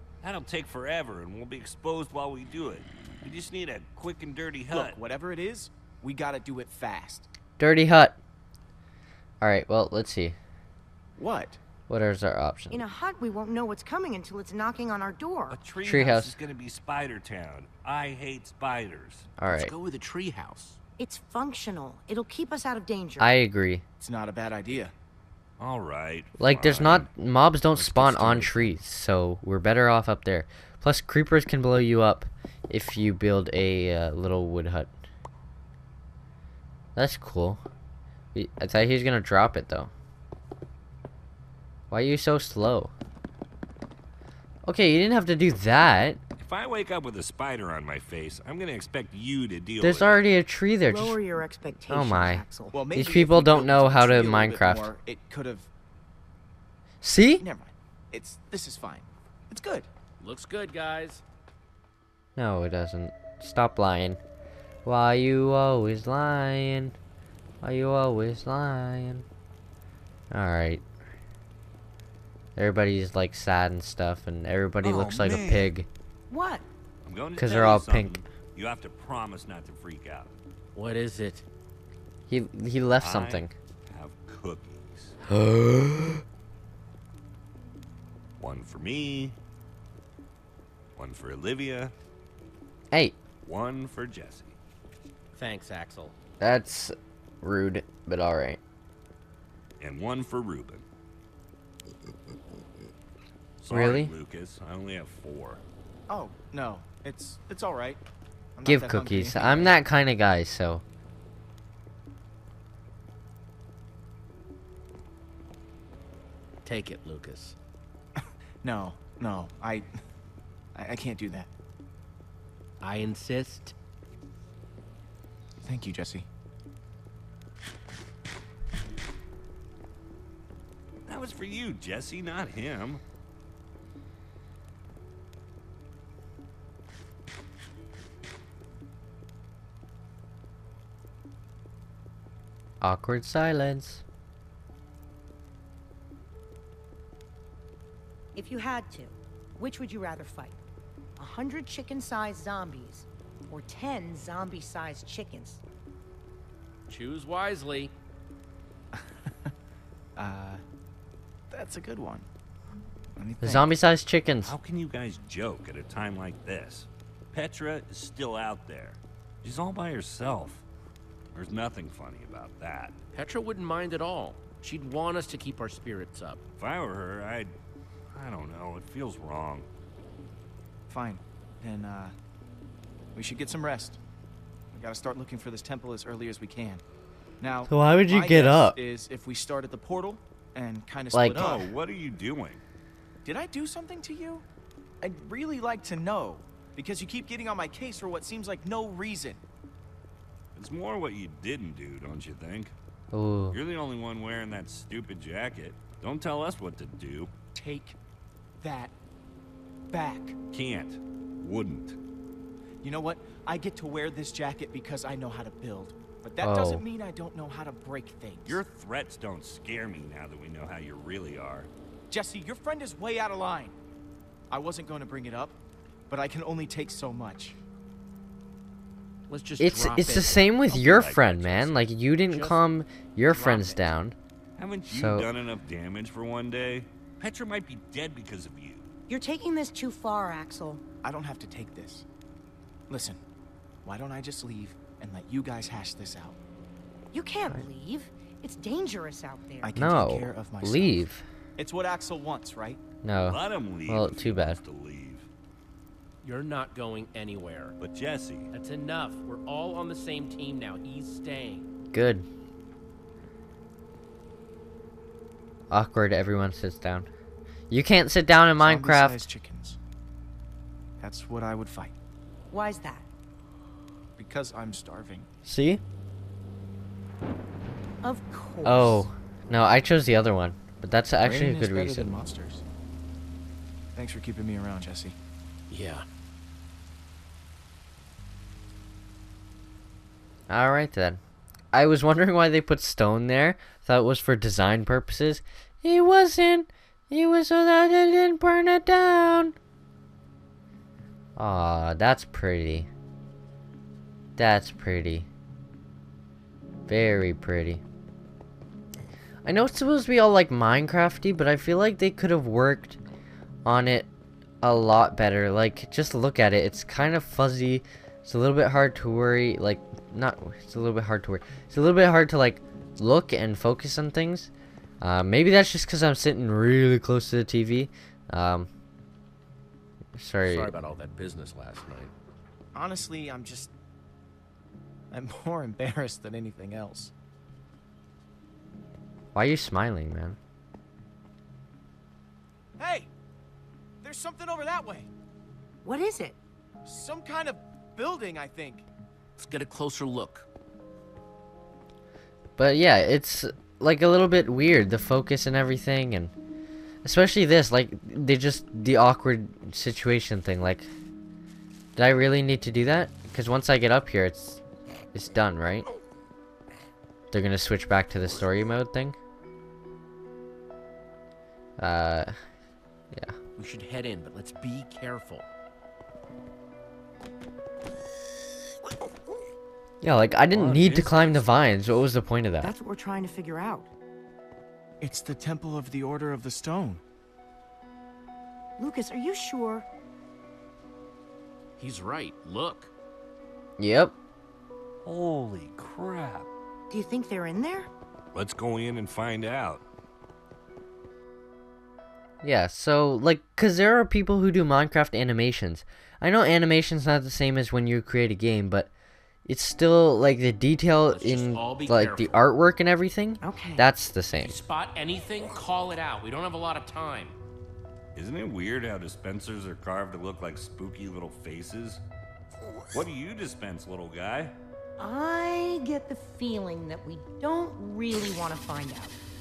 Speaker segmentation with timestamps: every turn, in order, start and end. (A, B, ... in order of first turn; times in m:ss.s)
0:00.2-0:05.0 A
0:04.7-0:07.3 B
0:07.6-0:08.2 C
0:09.4-0:10.4 C
0:11.2-0:11.6 B
0:11.9-0:12.8 C
0:12.7-0:15.6 D
0:15.5-0:19.3 A
0:15.8-0:16.3 C
0:19.4-0:19.7 C
0:19.4-0:20.8 E
0:21.0-0:23.3 D
0:23.2-0:23.8 C
0:24.0-0:24.9 B
0:25.6-0:27.1 A
0:26.4-0:34.9 C
0:27.7-0:28.7 A
0:37.0-0:37.6 C
0:38.3-0:39.9 C
0:41.9-0:42.9 C
0:44.6-0:46.2 C
0:46.4-0:50.2 A
0:49.8-0:51.2 C
0:50.9-0:52.8 D
0:51.9-0:54.9 C
0:52.7-0:55.7 B
0:57.0-0:57.4 C
0:57.4-0:59.9 B
1:00.2-1:01.2 E
1:02.4-1:04.2 C
1:04.8-1:07.0 C
1:07.6-1:09.2 C
1:10.3-1:10.8 C
1:12.6-1:15.9 C
1:14.8-1:15.7 A
1:16.3-1:16.6 D
1:17.0-1:20.3 A
1:17.4-1:18.2 C
1:20.7-1:21.4 E
1:22.3-1:23.5 C
1:23.0-1:25.2 A
1:25.4-1:26.2 C
1:28.4-1:29.4 A
1:31.0-1:31.9 A
1:33.4-1:34.6 A
1:35.3-1:36.1 E
1:36.4-1:38.6 C
1:39.8-1:40.8 A
1:43.6-1:45.6 A
1:43.7-1:44.1 C
1:46.1-1:48.0 B
1:48.5-1:49.7 B
1:48.6-1:50.8 C
1:56.6-1:57.5 E
1:58.6-1:59.9 B
2:00.7-2:01.5 B
2:02.8-2:03.7 E
2:05.6-2:06.3 B
2:11.1-2:13.0 A
2:22.8-2:24.0 C
2:28.4-2:30.6 D
2:31.2-2:35.6 D
2:36.9-2:37.9 E
2:38.9-2:39.5 B
2:40.2-2:40.6 B
2:41.5-2:42.3 B
2:43.2-2:43.7 B
2:43.4-2:44.5 C
2:44.4-2:50.6 A
2:51.3-2:52.9 A
2:53.1-2:56.4 E
2:56.6-2:57.5 A
2:58.1-2:59.7 A
3:00.9-3:02.1 B
3:03.1-3:04.0 B
3:04.7-3:06.8 B
3:07.4-3:11.7 B
3:07.7-3:08.8 C
3:11.1-3:11.5 C
3:11.4-3:12.6 A
3:13.2-3:14.4 B
3:15.0-3:19.4 B
3:20.6-3:22.7 A
3:23.1-3:23.6 C
3:23.5-3:27.3 A
3:27.5-3:28.0 B
3:28.6-3:28.9 B
3:29.9-3:30.4 B
3:30.5-3:32.0 A
3:32.8-3:38.6 B
3:36.4-3:36.8 C
3:38.4-3:41.7 A
3:42.1-3:43.7 B
3:44.5-3:45.6 B
3:46.1-3:47.6 B
3:49.3-3:50.6 E
3:49.6-3:54.2 C
3:50.7-3:51.7 A
3:52.3-3:52.6 E
3:53.2-3:53.9 E
3:54.6-3:58.9 A
3:54.9-3:55.3 C
3:59.1-4:00.8 D
4:01.0-4:02.0 B
4:02.9-4:03.2 B
4:03.8-4:06.4 B
4:07.1-4:09.7 D
4:09.6-4:11.0 B
4:09.8-4:11.2 C
4:11.6-4:12.8 B
4:13.0-4:14.6 C
4:13.2-4:15.3 A
4:16.2-4:17.8 E
4:17.8-4:18.5 A
4:18.5-4:21.7 E
4:21.9-4:22.2 C
4:25.7-4:27.1 C
4:27.7-4:29.2 C
4:28.6-4:29.8 B
4:31.0-4:31.9 B
4:32.5-4:33.1 D
4:34.2-4:35.3 B
4:35.4-4:35.8 C
4:38.0-4:39.1 D
4:38.6-4:42.2 C
4:41.2-4:42.6 B
4:43.9-4:45.2 B
4:45.7-4:46.0 E
4:50.5-4:51.2 C
4:51.7-4:59.5 C
5:01.4-5:02.9 C
5:04.4-5:05.3 C
5:06.9-5:07.8 C
5:09.4-5:13.0 C
5:13.6-5:14.1 C
5:14.6-5:28.7 C
5:30.2-5:30.8 C
5:30.4-5:32.1 E
5:32.7-5:33.7 B
5:35.1-5:37.1 B
5:39.3-5:40.4 C
5:42.8-5:43.1 B
5:44.0-5:45.1 B
5:45.8-5:46.4 D
5:46.8-5:48.8 B
5:49.4-5:50.5 E
5:52.6-5:56.3 C
5:57.0-6:00.9 C
6:02.0-6:04.6 C
6:05.1-6:05.9 C
6:07.3-6:09.2 C
6:11.8-6:12.3 C
6:13.6-6:15.4 E
6:20.0-6:22.7 C
6:20.5-6:21.4 A
6:22.6-6:23.9 D
6:25.0-6:27.0 B
6:28.8-6:29.9 D
6:31.8-6:32.9 E
6:33.8-6:34.1 C
6:35.0-6:36.5 A
6:36.9-6:37.9 D
6:38.3-6:39.8 A
6:42.4-6:48.9 C
6:49.4-6:54.6 C
6:51.1-6:52.4 E
6:53.4-6:53.8 D
6:54.4-6:57.4 E
6:58.1-7:02.0 A
7:02.9-7:04.5 A
7:05.0-7:09.2 D